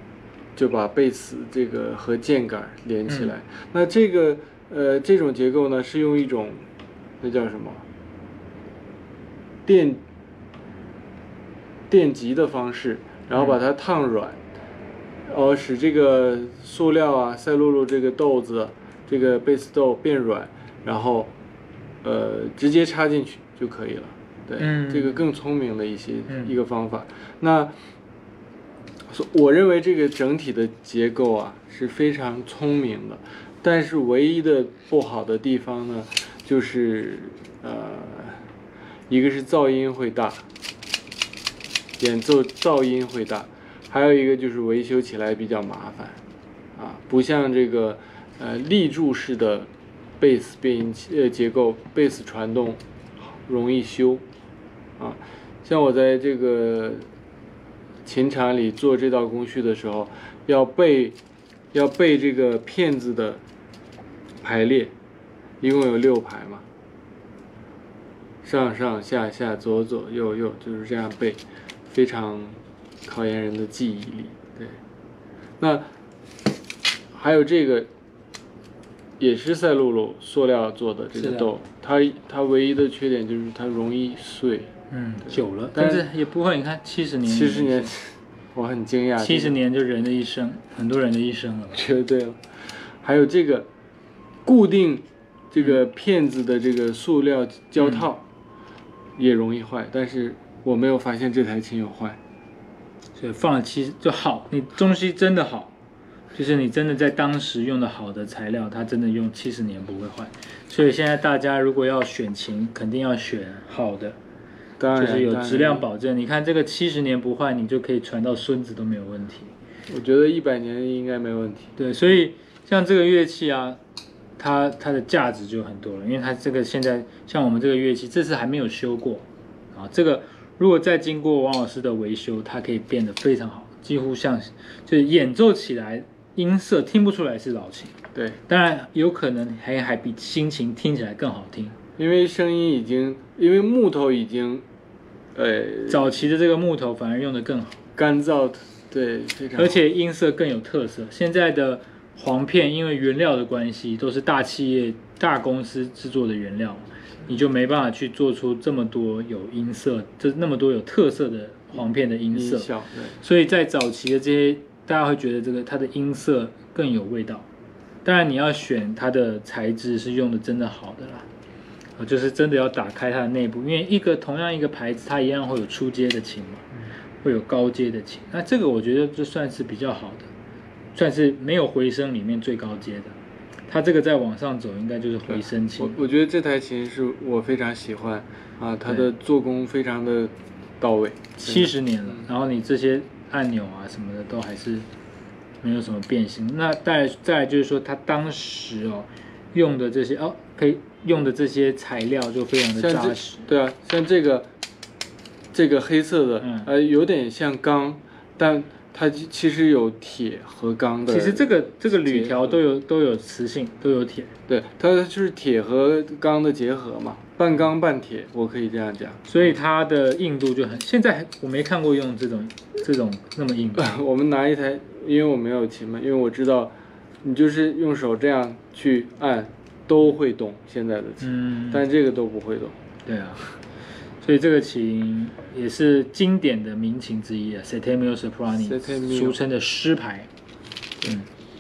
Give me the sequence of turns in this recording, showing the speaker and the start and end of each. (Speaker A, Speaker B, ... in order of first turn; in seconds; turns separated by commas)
Speaker A: 0.6-6.7, Speaker A: 7.2-7.8, Speaker A: 9.7-10.0, Speaker A: 11.9-14.4, Speaker A: 15.2-21.3, Speaker A: 22.0-27.9, Speaker B: 24.6-25.2, Speaker B: 26.3-26.5, Speaker A: 29.1-38.5, Speaker A: 39.1-40.5, Speaker A: 42.0-46.2, Speaker A: 46.8-54.2, Speaker A: 55.0-57.1, Speaker A: 58.0-61.2, Speaker A: 61.7-63.4, Speaker A: 64.4-64.9, Speaker A: 65.6-66.7, Speaker A: 68.4-74.8, Speaker A: 75.6-75.9, Speaker A: 77.1-77.9, Speaker A: 79.2-84.7, Speaker B: 81.2-81.5, Speaker B: 84.9-87.9, Speaker A: 85.2-86.0, Speaker A: 87.2-89.6, Speaker B: 89.2-91.8, Speaker A: 91.7-93.7, Speaker A: 94.4-98.2, Speaker B: 97.8-98.0, Speaker A: 99.2-102.2, Speaker B: 103.2-105.7, Speaker B: 106.3-114.2, Speaker A: 114.8-115.8, Speaker B: 114.9-119.5, Speaker A: 119.9-121.7, Speaker B: 121.8-123.8, Speaker B: 124.4-141.8, Speaker A: 138.1-138.4, Speaker A: 142.0-144.7, Speaker A: 145.3-146.2, Speaker B: 145.9-147.8, Speaker A: 147.9-149.8, Speaker B: 149.6-162.7, Speaker A: 162.3-163.2, Speaker B: 163.2-167.4, Speaker B: 168.0-171.3, Speaker B: 172.0-176.7, Speaker B: 177.2-180.3, Speaker B: 180.9-183.2, Speaker B: 183.7-186.0, Speaker A: 185.3-192.2, Speaker B: 191.4-194.9, Speaker B: 195.6-203.4, Speaker A: 202.8-204.5, Speaker A: 205.5-212.6, Speaker B: 206.4-206.7, Speaker B: 211.1-214.3, Speaker A: 214.5-219.5, Speaker B: 219.3-223.9, Speaker A: 223.8-232.8, Speaker B: 231.2-231.8, Speaker B: 233.1-233.5, Speaker B: 234.2-240.3, Speaker A: 238.6-239.4